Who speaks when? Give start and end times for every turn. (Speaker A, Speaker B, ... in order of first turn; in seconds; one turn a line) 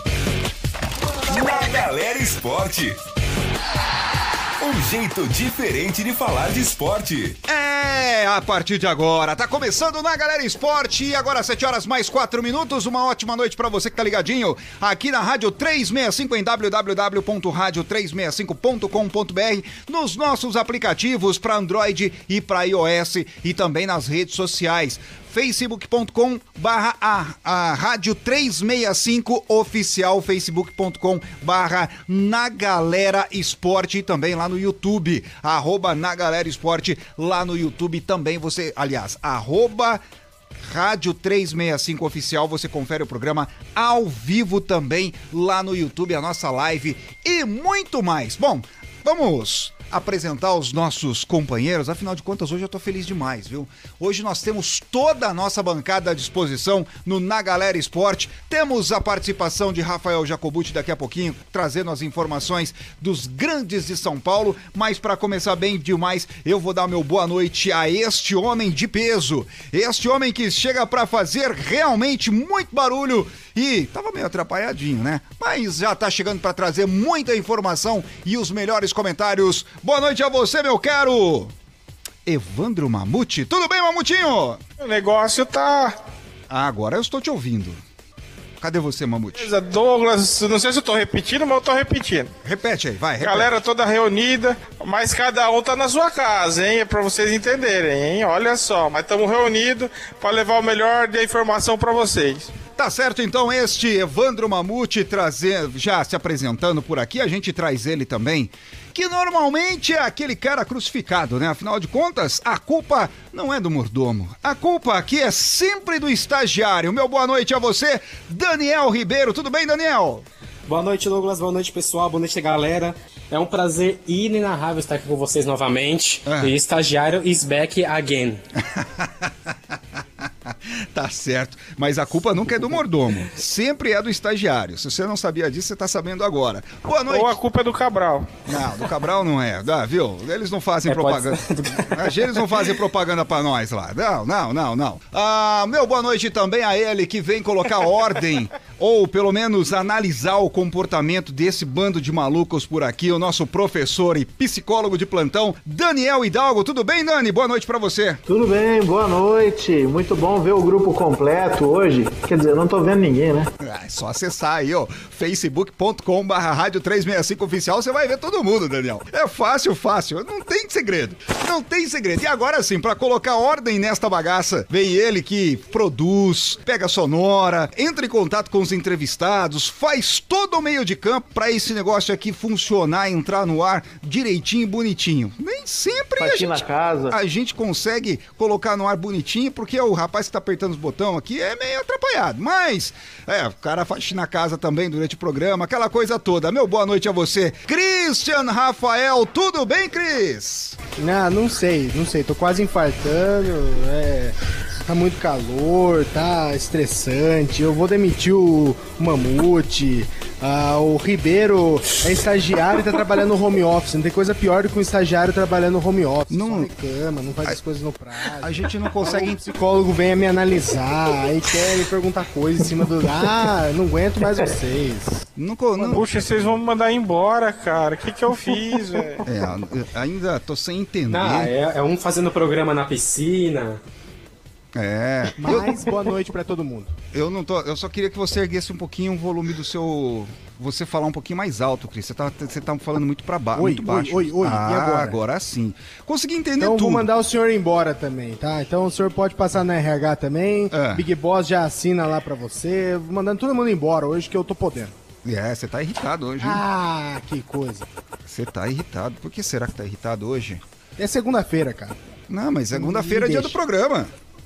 Speaker A: 1.0-3.0
Speaker A: 4.6-7.4
Speaker B: 7.5-40.0
Speaker B: 40.6-81.5
Speaker B: 82.2-84.6
Speaker C: 84.8-86.0
Speaker B: 86.5-87.8
Speaker B: 88.6-89.5
Speaker C: 89.4-92.3
Speaker B: 92.4-93.5
Speaker C: 93.2-102.5
Speaker B: 102.8-120.3
Speaker D: 120.7-128.4
Speaker B: 126.2-126.6
Speaker B: 128.6-129.5
Speaker B: 130.5-137.4
Speaker C: 137.1-138.3
Speaker B: 138.5-158.2
Speaker D: 140.9-142.5
Speaker E: 158.3-163.5
Speaker B: 163.6-200.8
Speaker E: 186.2-187.2
Speaker F: 201.0-225.2
Speaker B: 216.3-216.7
Speaker B: 218.4-219.4
Speaker B: 225.4-226.5
Speaker C: 225.9-229.2
Speaker B: 229.2-231.5
Speaker D: 231.1-233.8
Speaker B: 234.7-235.7
Speaker F: 235.4-237.0
Speaker B: 237.1-247.1
Speaker F: 243.6-245.2
Speaker F: 246.6-254.9
Speaker B: 250.7-251.1
Speaker B: 255.2-256.6
Speaker F: 256.4-257.9
Speaker B: 258.3-260.6
Speaker F: 261.0-262.0
Speaker B: 262.3-264.1
Speaker F: 262.7-263.6